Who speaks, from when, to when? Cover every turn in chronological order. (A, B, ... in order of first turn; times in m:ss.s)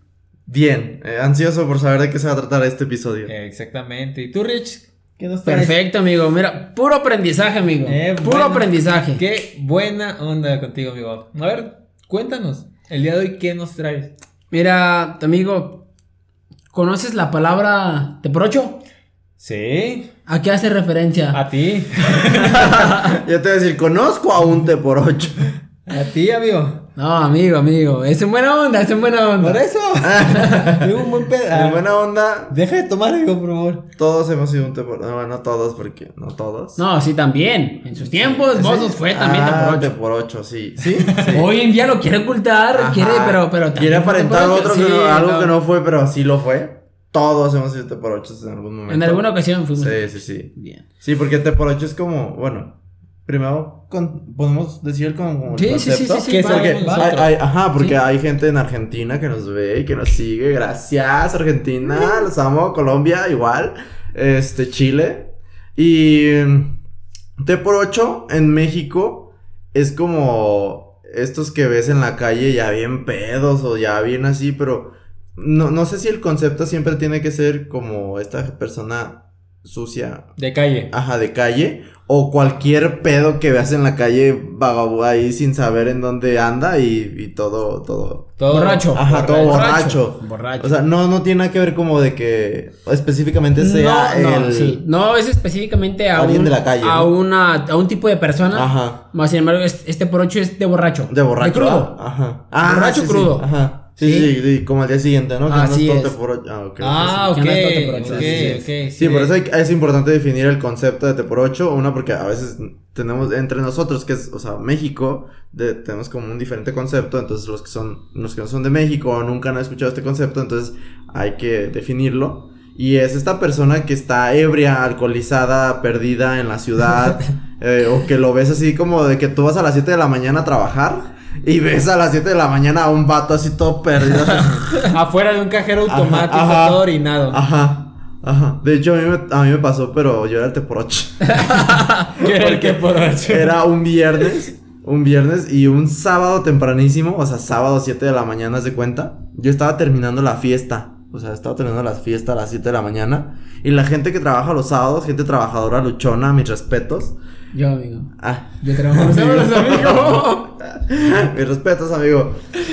0:00.5-0:03.3 A
0:03.3-0:05.8 B
0:05.4-0:09.2 C
0:07.8-0:14.1 B
0:14.5-0:15.8 C
0:16.7-0:18.8 C
0:19.4-0:20.1 B
0:20.2-0:21.4 C
0:21.3-0:22.8 B
0:22.3-0:23.2 C
0:23.1-0:25.5 A
0:25.9-0:26.8 B
0:27.0-0:29.6 C
0:29.4-0:31.8 B
0:30.0-0:30.9 A
0:30.3-0:30.6 C
0:31.5-0:32.6 A
0:32.5-0:33.8 B
0:34.0-0:36.8 A
0:36.8-0:39.9 C
0:38.0-0:41.5 A
0:41.2-0:45.5 C
0:42.7-0:49.2 A
0:48.9-0:50.8 C
0:49.8-0:52.7 A
0:53.2-1:06.7 A
0:55.5-0:57.1 C
0:56.3-0:57.3 B
1:07.4-1:20.3 A
1:20.4-1:20.9 B
1:20.9-1:28.4 A
1:28.4-1:29.8 B
1:28.5-1:30.8 C
1:28.9-1:34.8 A
1:33.6-1:42.0 C
1:36.1-1:37.1 A
1:38.5-1:39.0 A
1:41.1-1:47.3 A
1:42.6-1:43.5 C
1:44.0-1:44.3 C
1:45.5-1:46.1 C
1:46.8-1:49.3 B
1:47.3-1:48.7 C
1:48.0-2:14.8 A
2:14.7-2:17.4 B
2:15.9-2:21.6 A
2:21.3-2:22.0 C
2:22.1-2:23.6 B
2:22.2-2:37.2 A
2:37.5-2:40.5 C
2:38.2-2:42.4 A